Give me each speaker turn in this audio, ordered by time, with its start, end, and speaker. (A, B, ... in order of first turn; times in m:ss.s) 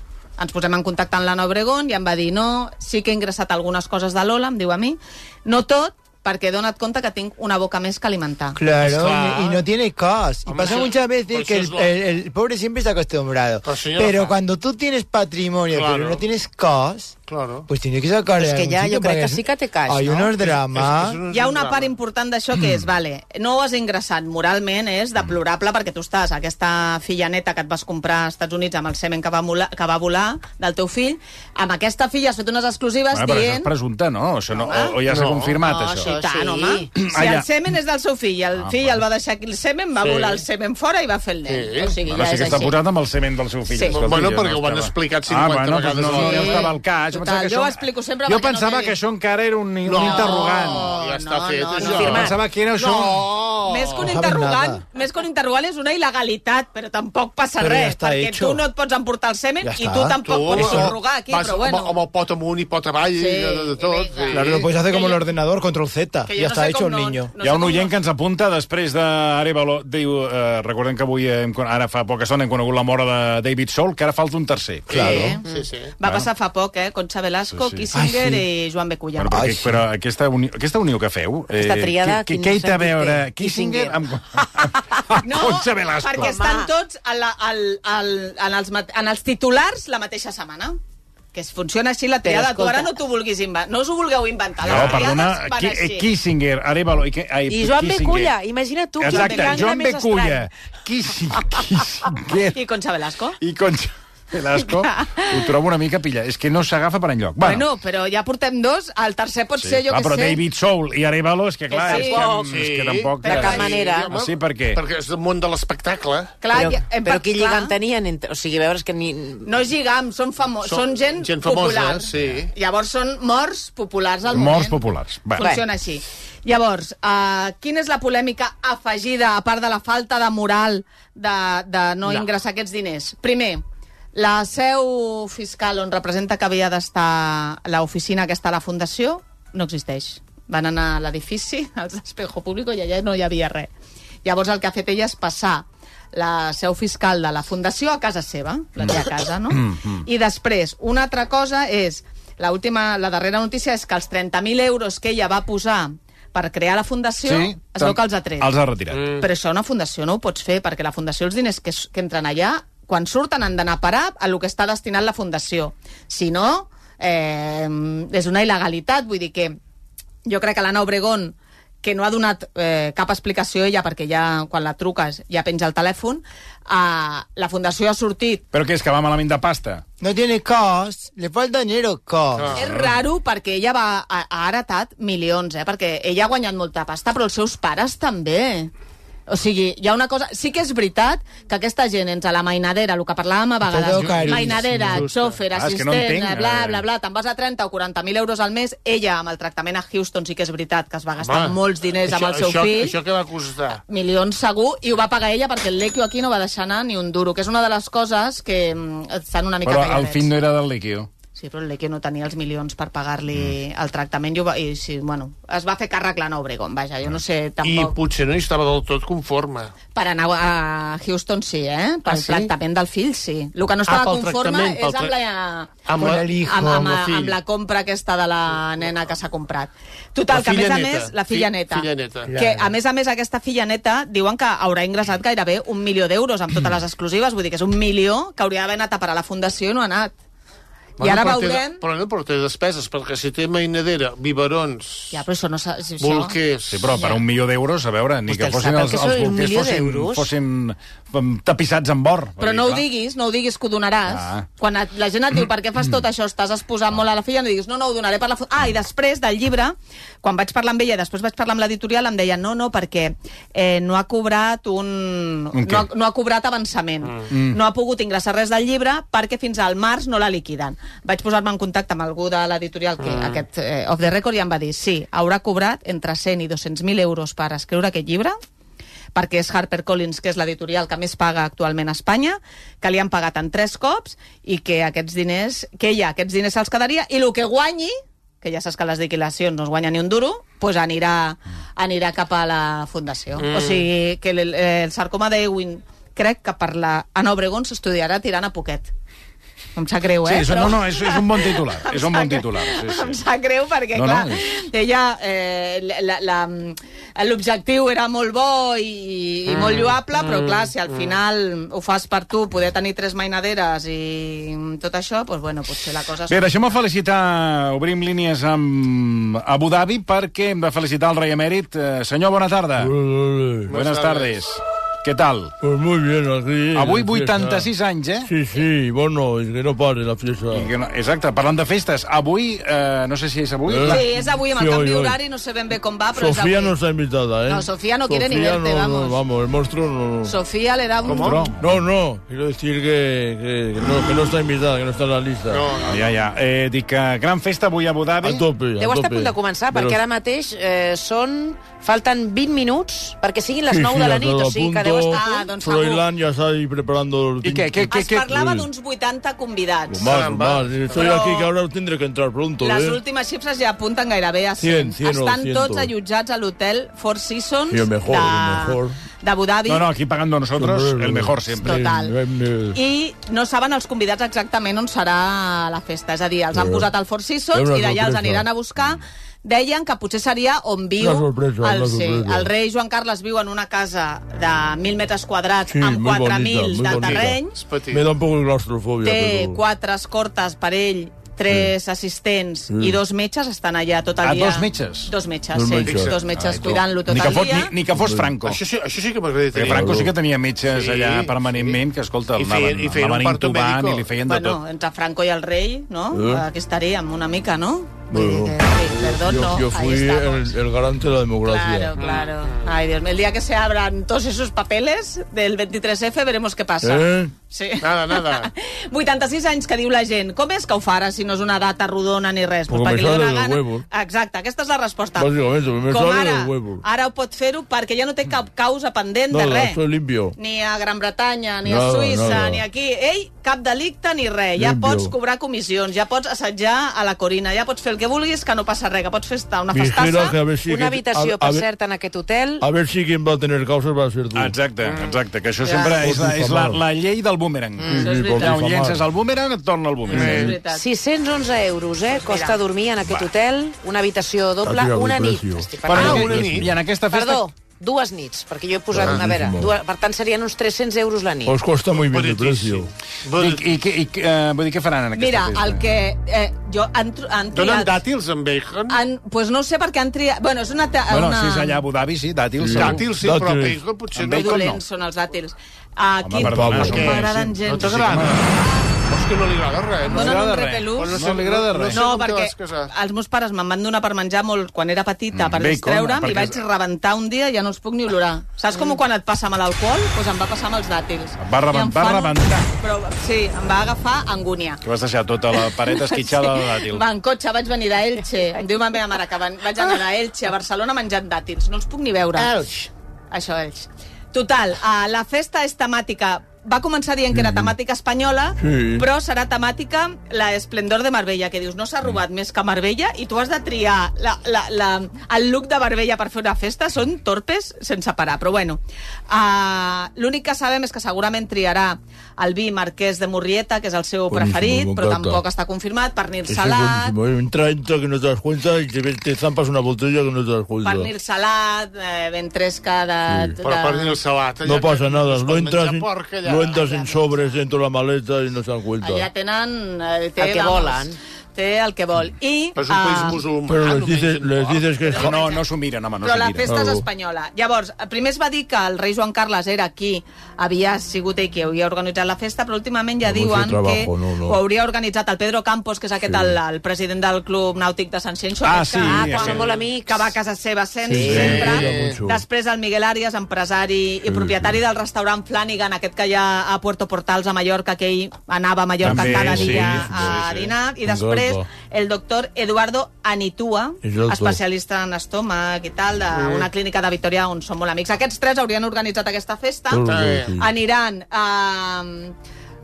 0:00.4-0:08.6 A
0:08.6-0:17.1 B
0:08.7-0:09.6 C
0:10.4-0:11.9 C
0:13.6-0:14.4 C
0:15.7-0:16.2 C
0:17.3-0:17.7 C
0:17.7-0:21.2 B
0:18.4-0:20.3 D
0:20.3-0:21.9 C
0:21.3-0:33.7 A
0:33.1-0:36.1 E
0:34.5-0:35.0 A
0:35.1-0:35.6 C
0:35.6-0:42.8 A
0:35.7-0:36.9 D
0:36.9-0:37.5 E
0:38.6-0:39.0 E
0:40.0-0:40.4 C
0:41.5-0:41.9 C
0:42.0-0:50.9 E
0:43.7-0:44.0 A
0:43.9-0:46.7 C
0:46.1-0:49.0 A
0:49.8-0:54.2 C
0:49.9-1:02.0 A
0:51.8-0:52.3 D
0:52.0-0:53.2 E
0:54.0-0:54.8 B
0:57.6-0:58.6 B
0:59.6-1:00.9 B
1:00.2-1:04.7 C
1:03.2-1:05.2 A
1:04.3-1:07.3 B
1:06.3-1:07.9 A
1:07.4-1:15.3 E
1:14.9-1:19.5 A
1:14.9-1:15.3 B
1:15.0-1:15.9 C
1:16.0-1:16.3 E
1:17.5-1:17.9 E
1:17.9-1:18.4 B
1:19.2-1:26.4 E
1:19.3-1:19.8 B
1:21.5-1:24.0 D
1:25.2-1:30.8 A
1:26.1-1:26.7 D
1:31.3-1:36.1 A
1:32.2-1:32.9 D
1:34.6-1:38.3 E
1:34.7-1:35.1 C
1:37.5-1:40.5 D
1:39.0-1:42.6 E
1:39.0-1:39.7 A
1:42.5-1:43.4 A
1:43.4-1:47.7 E
1:44.6-1:45.3 A
1:47.4-1:50.4 A
1:49.6-1:54.8 E
1:51.7-1:52.4 A
1:51.8-1:52.6 D
1:52.5-1:56.4 C
1:53.2-1:53.9 A
1:53.2-1:54.1 D
1:56.4-1:57.8 A
1:56.5-1:59.5 D
1:59.4-2:04.8 A
2:00.6-2:02.5 C
2:04.3-2:05.5 E
2:05.4-2:13.6 A
2:14.1-2:23.7 A
2:24.2-2:38.5 A
2:29.5-2:30.1 E
2:37.2-2:39.2 E
2:38.9-2:39.2 C
2:39.2-2:49.6 A
2:50.2-2:58.4 A
2:58.5-2:59.8 E
3:00.0-3:02.6 B
3:02.4-3:02.6 C
3:02.6-3:08.7 A
3:02.6-3:03.0 E
3:09.3-3:23.0 A
3:13.7-3:15.1 B
3:14.0-3:15.4 C
3:15.5-3:16.8 E
3:21.2-3:23.8 C
3:23.9-3:30.3 A
3:29.6-3:31.1 E
3:31.3-3:38.0 A
3:37.6-3:39.7 C
3:39.9-4:00.1 A
3:42.1-3:42.5 C
3:43.9-3:45.2 C
3:45.9-3:47.4 C
3:45.9-3:46.9 B
3:50.3-3:52.6 C
4:01.0-4:05.2 C
4:01.0-4:01.8 A
4:05.1-4:06.4 A
4:06.0-4:06.9 C
4:06.7-4:12.9 E
4:06.9-4:07.2 D
4:08.3-4:10.3 D
4:12.4-4:38.4 A
4:14.1-4:14.4 E
4:25.5-4:25.9 E
4:27.3-4:27.6 E
4:33.0-4:33.4 C
4:39.1-4:58.9 A
4:53.4-4:53.9 C
4:59.8-5:16.4 A
5:00.2-5:03.2 E
5:03.9-5:04.4 E
5:09.5-5:11.2 C
5:16.3-5:22.9 E
5:22.8-5:23.7 F
5:23.7-5:24.4 C
5:23.7-5:25.5 E
5:25.6-5:27.7 F
5:26.7-5:28.3 E
5:28.2-5:30.7 F
5:30.5-5:34.1 E
5:33.6-5:35.2 F
5:33.8-5:36.7 A
5:36.2-5:40.4 F
5:37.4-5:39.2 A
5:40.2-5:41.4 A
5:41.0-5:41.5 C
5:41.2-5:41.6 E
5:41.6-5:45.7 F
5:45.5-5:46.2 C
5:45.8-5:48.4 E
5:48.2-5:50.0 F
5:48.8-5:55.4 D
5:53.7-5:57.9 F
5:55.1-5:56.0 A
5:57.4-5:58.7 E
5:57.8-6:00.2 A
5:59.9-6:03.0 F
6:00.0-6:01.2 C
6:00.9-6:01.5 A
6:02.6-6:09.8 A
6:04.6-6:05.9 F
6:07.7-6:09.0 F
6:09.7-6:11.8 E
6:10.5-6:12.8 F
6:11.6-6:12.1 A
6:12.7-6:27.6 A
6:16.5-6:16.9 F
6:17.5-6:18.4 F
6:21.0-6:22.5 F
6:25.7-6:29.6 F
6:27.5-6:28.1 C
6:29.0-6:37.7 A
6:32.7-6:33.0 F
6:34.2-6:35.1 E
6:35.5-6:36.2 F
6:35.8-6:36.2 C
6:36.3-6:38.6 E
6:37.9-6:38.4 F
6:38.4-6:40.0 C
6:39.5-6:44.6 E
6:39.6-6:40.1 F
6:40.6-6:41.8 C
6:42.4-6:44.1 C
6:44.2-6:50.6 A
6:46.1-6:46.4 F
6:48.1-6:52.0 F
6:51.4-7:05.3 A
6:52.0-6:52.7 C
6:56.8-6:57.3 F
6:57.8-6:58.5 C
7:02.7-7:03.8 F
7:05.2-7:06.8 F
7:05.9-7:09.8 A
7:09.3-7:10.4 F
7:10.4-7:20.4 A
7:11.6-7:12.6 F
7:14.6-7:15.1 F
7:19.7-7:21.6 F
7:20.6-7:22.6 D
7:22.6-7:24.6 F
7:24.4-7:30.4 E
7:24.8-7:25.2 C
7:25.6-7:26.1 A
7:26.0-7:26.8 F
7:27.8-7:28.1 D
7:27.9-7:29.1 F
7:28.0-7:28.6 A
7:30.1-7:30.8 A
7:30.1-7:30.5 F
7:30.1-7:30.5 C
7:30.7-7:36.4 D
7:32.1-7:32.6 A
7:33.0-7:33.3 E
7:34.6-7:36.7 F
7:35.9-7:37.5 E
7:35.9-7:36.7 C
7:37.0-7:41.6 D
7:38.9-7:39.7 F
7:41.4-7:42.9 F
7:42.0-7:43.7 C
7:43.3-7:45.8 E
7:45.1-7:48.0 A
7:47.5-7:49.0 C
7:48.9-7:51.8 A
7:51.1-7:53.1 E
7:52.6-7:53.9 F
7:52.7-7:54.5 C
7:54.1-7:54.8 E
7:54.2-7:58.9 A
7:56.2-7:58.5 E
7:56.4-7:57.2 F
7:57.1-7:58.5 C
7:59.1-8:02.9 C
8:00.1-8:01.3 A
8:00.1-8:02.1 E
8:01.9-8:14.8 A
8:05.3-8:06.6 E
8:11.4-8:12.7 E
8:14.8-8:17.0 E
8:15.6-8:22.6 A
8:23.3-8:47.1 A
8:27.3-8:27.7 F
8:28.6-8:29.1 F
8:44.3-8:45.4 F
8:46.5-8:51.1 F
8:50.8-8:54.2 A
8:53.3-8:53.6 F
8:53.6-8:56.9 C
8:54.6-8:59.3 F
8:56.7-8:57.5 A
8:59.0-9:03.4 A
9:00.4-9:01.2 D
9:02.8-9:05.2 C
9:03.6-9:05.4 F
9:05.0-9:05.6 A
9:05.2-9:06.8 E
9:06.2-9:42.3 A
9:06.6-9:07.0 F
9:13.2-9:14.6 F
9:16.2-9:16.6 F
9:18.6-9:19.7 E
9:19.0-9:20.3 D
9:21.1-9:22.4 F
9:21.2-9:21.8 D
9:21.4-9:22.2 C
9:24.3-9:24.8 F
9:29.0-9:30.7 E
9:29.0-9:31.7 F
9:34.0-9:34.6 F
9:36.3-9:36.7 C
9:39.9-9:40.7 F
9:40.0-9:40.5 C